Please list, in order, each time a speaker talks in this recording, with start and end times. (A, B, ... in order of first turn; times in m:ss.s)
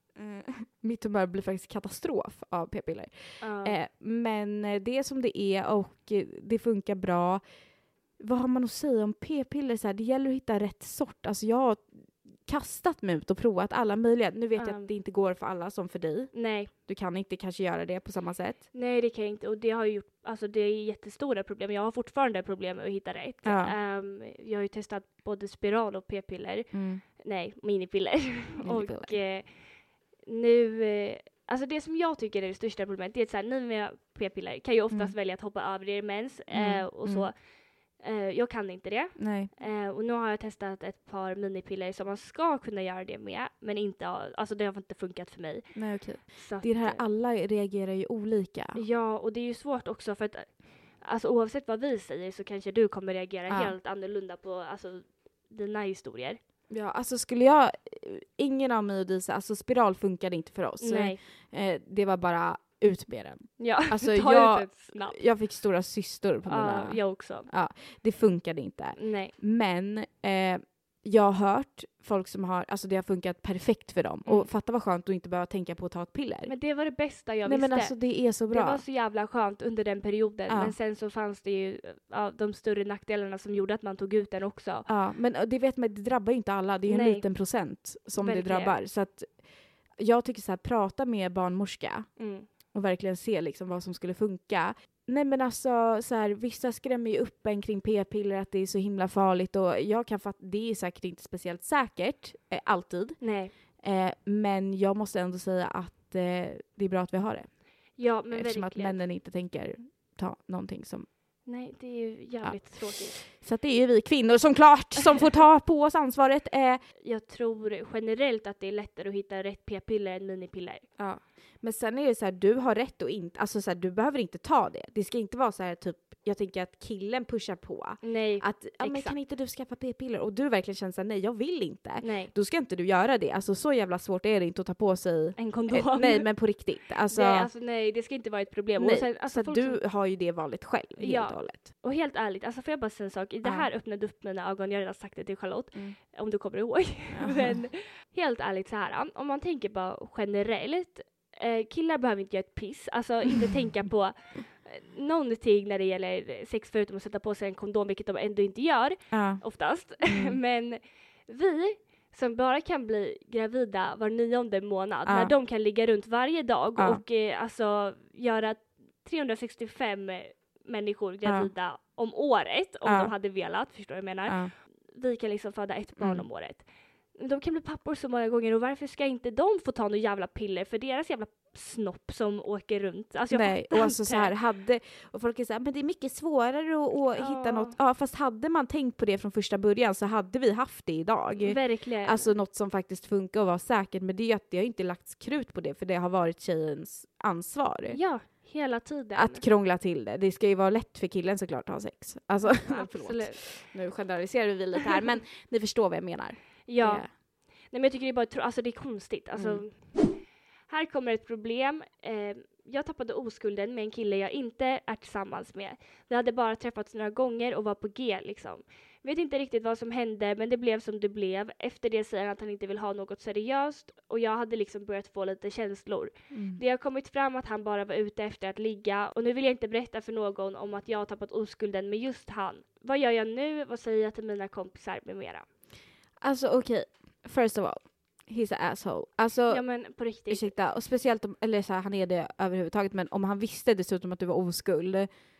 0:00.2-0:07.5 A
0:03.4-0:03.8 B
0:08.2-0:18.6 A
0:14.6-0:14.9 B
0:16.3-0:16.7 B
0:18.7-0:47.0 B
0:23.4-0:23.8 A
0:26.7-0:27.0 A
0:28.6-0:29.2 A
0:34.9-0:35.2 A
0:36.5-0:37.3 A
0:39.2-0:39.5 A
0:45.7-0:48.8 A
0:48.8-0:56.4 B
0:53.5-0:53.8 A
0:56.7-1:16.6 A
1:00.8-1:01.2 B
1:03.6-1:05.2 B
1:06.4-1:07.5 B
1:09.0-1:09.3 B
1:16.5-1:24.9 B
1:17.4-1:18.8 A
1:20.5-1:20.8 A
1:24.9-1:51.1 A
1:26.9-1:28.8 B
1:32.2-1:32.5 B
1:43.2-1:43.5 B
1:47.9-1:49.0 B
1:51.4-1:53.2 B
1:52.4-1:56.8 A
1:57.0-2:00.9 B
2:01.0-2:17.5 A
2:08.0-2:09.2 B
2:12.0-2:12.3 B
2:15.4-2:16.5 B
2:17.1-2:19.8 B
2:18.8-2:21.7 A
2:21.0-3:04.3 B
2:23.4-2:23.7 A
2:27.1-2:27.6 A
2:39.1-2:40.4 A
2:45.1-2:45.3 A
2:46.8-2:47.0 A
2:51.2-2:51.5 A
2:52.8-2:53.1 A
2:54.3-2:54.5 A
2:56.0-2:56.2 A
3:03.3-3:18.0 A
3:07.2-3:07.8 B
3:11.3-3:12.3 B
3:17.9-3:19.4 B
3:19.1-3:27.1 A
3:22.4-3:23.8 B
3:26.6-3:55.5 B
3:29.3-3:29.7 A
3:46.3-3:46.6 A
3:56.2-4:05.1 A
3:59.5-4:00.5 B